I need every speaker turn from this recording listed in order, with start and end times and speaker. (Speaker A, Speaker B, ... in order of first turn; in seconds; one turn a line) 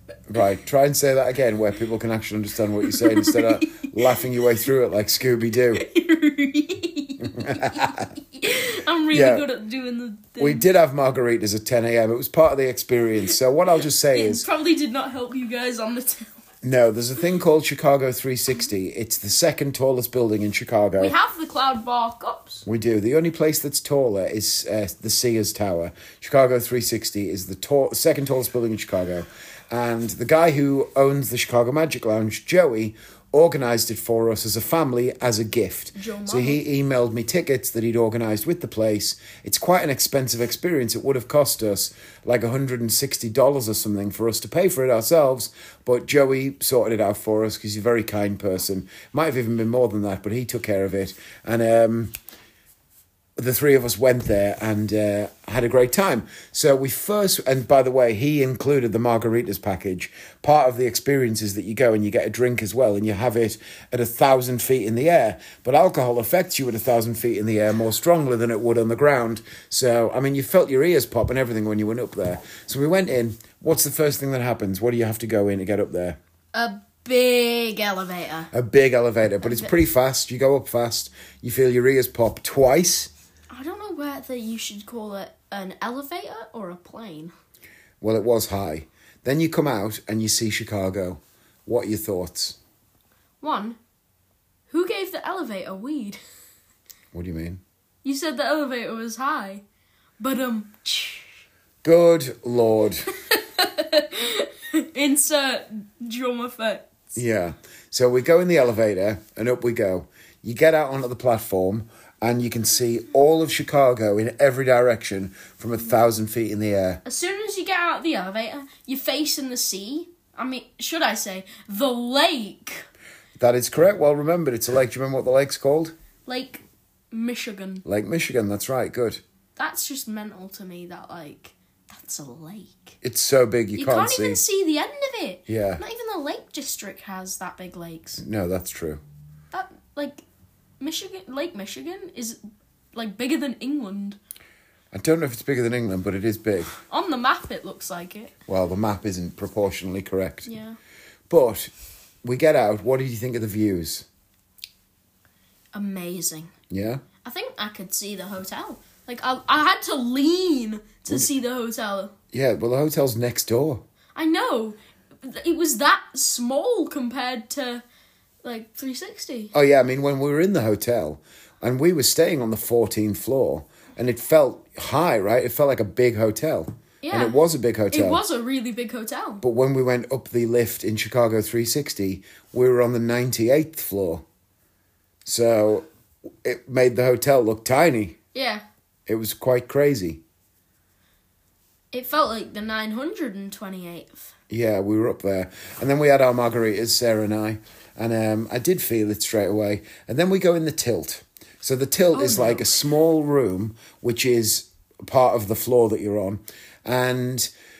Speaker A: 0.3-5.8
Speaker B: 2.9-4.3
Speaker B: 5.6-10.7
Speaker A: 7.2-8.1
Speaker A: 9.1-9.5
Speaker A: 10.4-14.5
Speaker B: 14.1-16.4
Speaker A: 16.6-21.1
Speaker B: 21.0-22.6
Speaker A: 22.6-52.1
Speaker B: 36.0-36.6
Speaker A: 53.4-76.2
Speaker B: 76.5-78.5
Speaker A: 78.5-83.1
Speaker B: 79.4-79.7
Speaker B: 83.5-87.3
Speaker A: 88.0-92.6
Speaker B: 93.4-93.8
Speaker B: 94.7-96.2
Speaker A: 97.1-97.6
Speaker B: 98.0-99.6
Speaker B: 100.2-101.4
Speaker A: 101.8-103.1
Speaker B: 103.1-107.1
Speaker A: 107.2-117.0
Speaker B: 117.0-122.9
Speaker A: 123.4-126.0
Speaker B: 126.3-127.8
Speaker A: 127.8-129.2
Speaker B: 129.6-133.0
Speaker A: 133.0-134.4
Speaker B: 133.8-138.2
Speaker A: 135.5-135.8
Speaker A: 138.2-139.0
Speaker B: 139.5-140.2
Speaker B: 140.8-142.4
Speaker B: 142.9-144.2
Speaker A: 144.9-146.8
Speaker B: 146.9-148.3
Speaker A: 148.5-150.5
Speaker B: 150.5-150.8
Speaker A: 151.3-151.7
Speaker A: 152.2-154.1
Speaker B: 155.7-156.5
Speaker A: 156.7-157.0
Speaker B: 157.2-162.1
Speaker A: 162.3-163.8
Speaker B: 164.2-167.8
Speaker B: 168.4-169.5
Speaker A: 169.5-178.2
Speaker B: 177.0-177.4
Speaker B: 177.9-179.4
Speaker A: 179.4-184.2
Speaker A: 185.3-185.9
Speaker A: 186.4-188.2
Speaker B: 188.3-188.6
Speaker A: 189.1-190.2
Speaker B: 191.9-194.3
Speaker A: 194.5-207.5
Speaker B: 202.1-202.7